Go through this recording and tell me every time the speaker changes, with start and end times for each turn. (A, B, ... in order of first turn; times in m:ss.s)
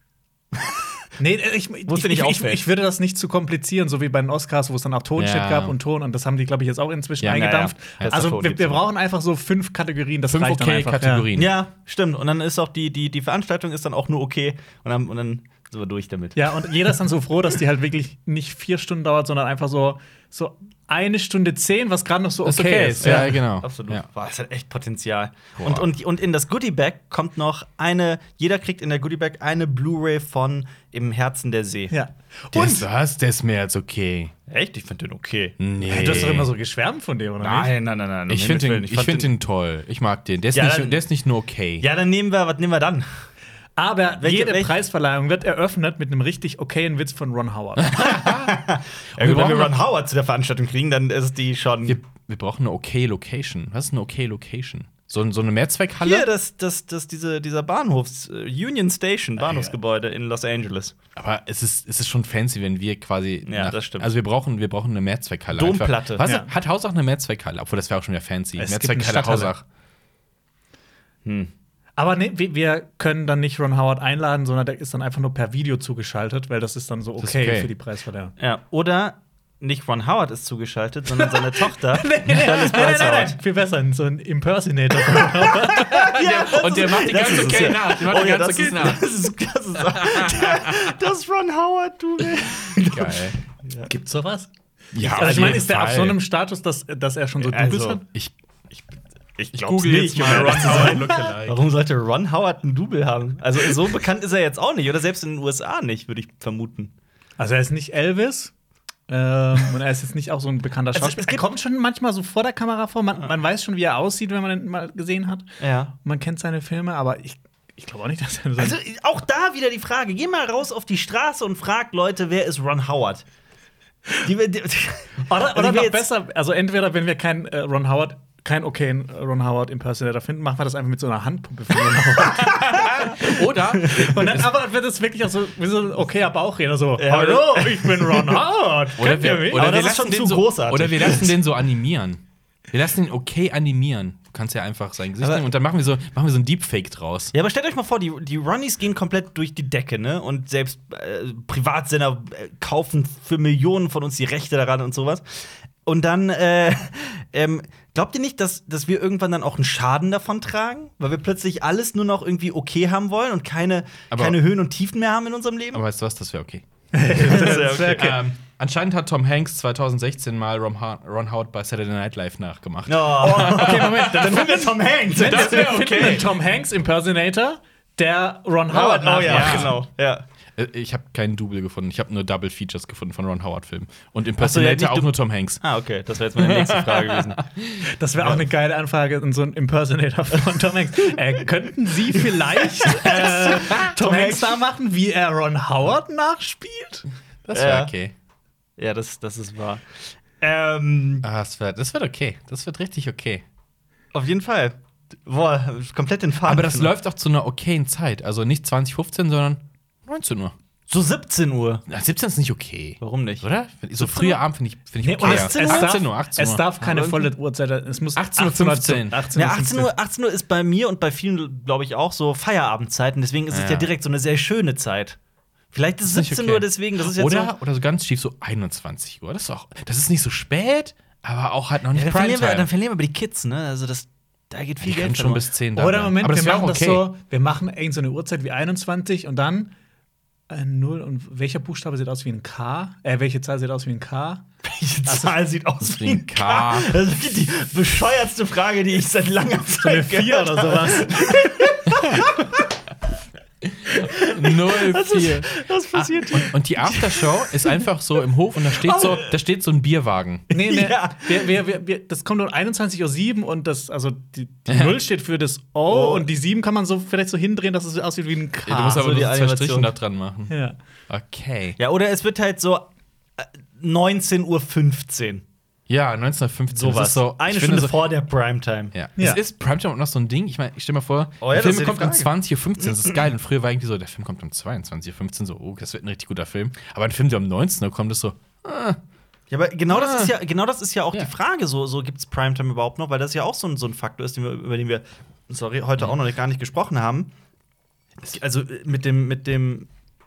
0:01.2-0:11.3 A
0:01.9-0:02.6 B
0:05.2-0:05.7 C
0:07.2-0:08.8 B
0:10.3-0:11.6 C
0:11.3-0:16.7 B
0:16.3-0:23.4 A
0:22.4-0:24.0 C
0:23.0-0:31.9 B
0:25.6-0:25.9 C
0:31.9-0:32.9 A
0:32.5-0:34.3 C
0:34.5-0:36.4 B
0:35.6-0:36.5 C
0:35.8-0:37.7 A
0:37.4-0:39.3 B
0:38.3-0:41.8 C
0:40.5-0:41.0 B
0:41.8-0:43.1 B
0:43.8-0:48.1 A
0:44.2-0:44.7 B
0:47.8-0:48.6 C
0:48.0-0:52.0 B
0:49.2-0:49.8 C
0:51.8-0:56.3 C
0:56.0-1:01.0 B
1:01.2-1:09.6 C
1:03.4-1:04.1 B
1:05.5-1:06.3 B
1:06.2-1:06.5 A
1:08.6-1:09.5 A
1:11.2-1:11.5 B
1:12.0-1:18.3 A
1:17.2-1:17.7 C
1:18.4-1:23.4 B
1:21.7-1:26.2 A
1:22.3-1:22.6 C
1:25.5-1:33.9 B
1:25.8-1:29.0 C
1:29.8-1:30.9 C
1:32.8-1:33.4 C
1:33.8-1:34.5 A
1:34.9-1:36.2 C
1:35.0-1:35.7 B
1:35.2-1:38.0 A
1:37.4-1:38.0 B
1:39.4-1:46.9 B
1:39.5-1:41.6 C
1:40.2-1:41.1 A
1:47.4-1:48.5 A
1:49.1-1:55.5 A
1:50.9-1:51.4 B
1:55.6-1:55.9 B
1:56.0-1:58.8 A
1:58.6-2:03.2 B
2:04.2-2:06.1 B
2:05.3-2:19.8 A
2:12.4-2:12.9 B
2:12.6-2:14.5 C
2:17.0-2:18.5 B
2:19.0-2:27.3 C
2:19.0-2:21.3 B
2:27.3-2:45.8 B
2:44.1-2:44.4 C
2:45.7-2:46.6 C
2:46.9-2:48.1 A
2:47.1-2:48.2 B
2:47.9-2:54.0 C
2:52.9-2:56.3 B
2:53.2-2:59.8 A
2:55.2-2:56.2 C
2:58.7-3:00.2 B
2:59.2-2:59.8 C
3:00.6-3:05.6 C
3:04.4-3:07.4 B
3:06.4-3:07.8 C
3:07.8-3:17.0 A
3:12.3-3:14.6 B
3:17.4-3:18.1 C
3:17.5-3:17.9 B
3:18.8-3:21.3 B
3:21.2-3:23.4 C
3:24.1-3:26.9 B
3:26.4-3:30.5 C
3:30.9-3:31.8 B
3:31.9-3:36.7 C
3:33.0-3:33.5 B
3:34.0-3:34.4 B
3:35.0-3:39.9 A
3:35.2-3:35.9 B
3:36.8-3:37.3 B
3:38.2-3:39.2 C
3:39.3-3:45.2 B
3:43.5-3:43.9 C
3:45.7-3:47.5 B
3:46.0-3:52.7 C
3:51.9-3:55.4 B
3:54.8-3:57.1 C
3:55.8-3:59.7 A
4:00.5-4:04.4 A
4:04.6-4:12.6 B
4:05.0-4:05.4 A
4:05.8-4:07.0 C
4:09.8-4:11.7 A
4:13.6-4:20.5 C
4:13.9-4:17.8 B
4:18.7-4:19.3 B
4:20.5-4:21.5 B
4:20.5-4:29.1 A
4:24.7-4:25.0 C
4:25.9-4:26.3 B
4:28.7-4:30.5 C
4:28.9-4:29.9 B
4:30.5-4:30.8 A
4:31.1-4:31.8 C
4:31.8-4:35.4 B
4:35.9-4:38.0 C
4:36.7-4:38.9 B
4:38.9-4:49.0 C
4:41.4-4:42.3 B
4:49.5-4:57.3 B
4:49.9-4:50.3 C
4:58.2-4:59.9 B